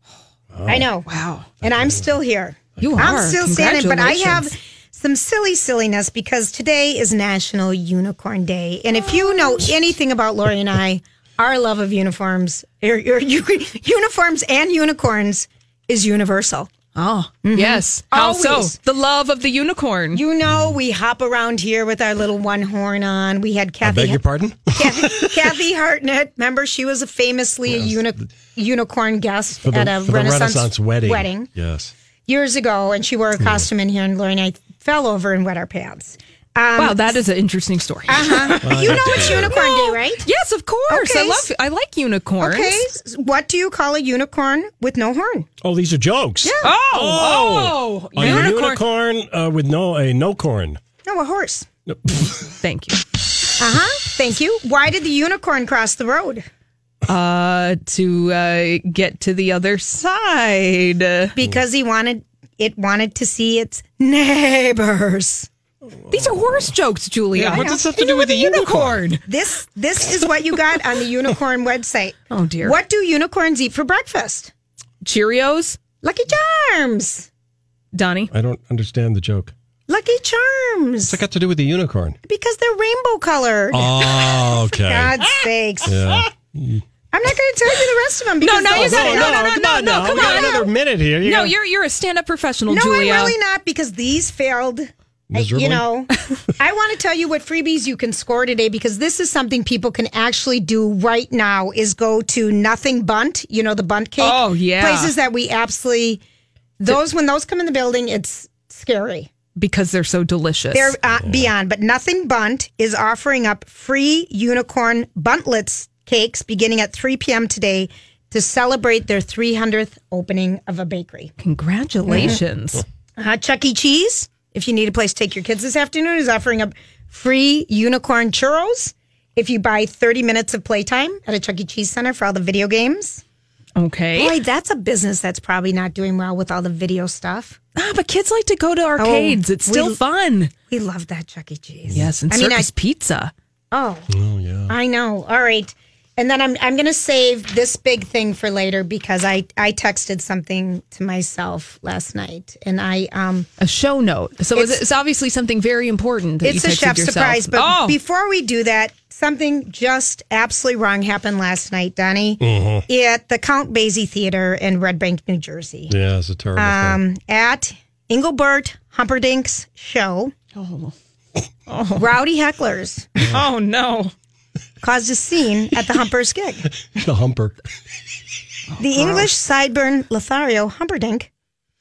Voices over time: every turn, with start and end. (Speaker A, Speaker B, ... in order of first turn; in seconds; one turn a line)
Speaker A: 0.5-0.9
Speaker B: 0.7-1.1
Speaker C: 1.1-1.5
Speaker A: 1.6-2.2
Speaker B: 1.6-16.7
Speaker A: 2.8-3.2
Speaker C: 2.8-4.5
Speaker C: 16.9-20.2
Speaker B: 17.4-18.8
Speaker B: 20.1-24.2
Speaker A: 20.5-20.8
Speaker A: 23.8-25.6
Speaker B: 24.7-31.5
Speaker A: 27.7-28.3
Speaker A: 29.6-31.9
Speaker B: 32.3-37.2
Speaker A: 33.4-33.7
Speaker C: 36.8-42.8
Speaker B: 38.1-40.3
Speaker A: 38.6-39.6
Speaker B: 40.9-41.5
Speaker B: 42.4-45.5
Speaker A: 45.6-50.8
Speaker B: 46.4-46.7
Speaker C: 46.6-48.8
Speaker B: 48.2-48.5
Speaker B: 51.0-51.7
Speaker A: 51.9-52.5
Speaker C: 52.6-53.0
Speaker B: 53.6-56.5
Speaker C: 57.1-61.4
Speaker B: 61.4-65.5
Speaker A: 65.9-66.7
Speaker C: 66.1-69.2
Speaker A: 67.3-69.1
Speaker B: 67.4-68.0
Speaker B: 69.2-74.5
Speaker C: 72.3-72.8
Speaker C: 75.0-75.8
Speaker B: 76.0-77.3
Speaker C: 77.9-78.3
Speaker A: 78.3-79.5
Speaker B: 79.9-81.2
Speaker A: 81.1-82.2
Speaker B: 82.2-86.2
Speaker A: 83.7-85.2
Speaker A: 85.8-86.8
Speaker B: 87.1-90.6
Speaker C: 88.4-90.7
Speaker A: 88.7-91.5
Speaker C: 91.2-93.3
Speaker B: 92.7-106.2
Speaker A: 95.3-95.9
Speaker C: 104.2-105.1
Speaker B: 106.8-109.3
Speaker C: 109.6-110.9
Speaker B: 110.7-121.3
Speaker A: 111.1-111.5
Speaker C: 121.4-122.8
Speaker B: 122.1-122.4
Speaker B: 123.2-133.2
Speaker C: 133.8-134.3
Speaker B: 134.1-137.6
Speaker C: 137.7-140.5
Speaker B: 139.0-140.0
Speaker B: 140.7-142.7
Speaker C: 141.9-143.3
Speaker B: 143.7-144.1
Speaker A: 144.1-144.8
Speaker B: 144.7-153.5
Speaker C: 153.6-157.9
Speaker B: 154.5-154.8
Speaker B: 156.4-165.9
Speaker A: 162.4-162.8
Speaker A: 165.9-167.0
Speaker B: 166.6-170.3
Speaker C: 170.6-170.9
Speaker C: 171.7-172.0
Speaker B: 171.9-173.2
Speaker C: 173.2-174.1
Speaker B: 174.8-176.7
Speaker A: 176.9-177.5
Speaker C: 178.7-179.2
Speaker B: 178.8-181.3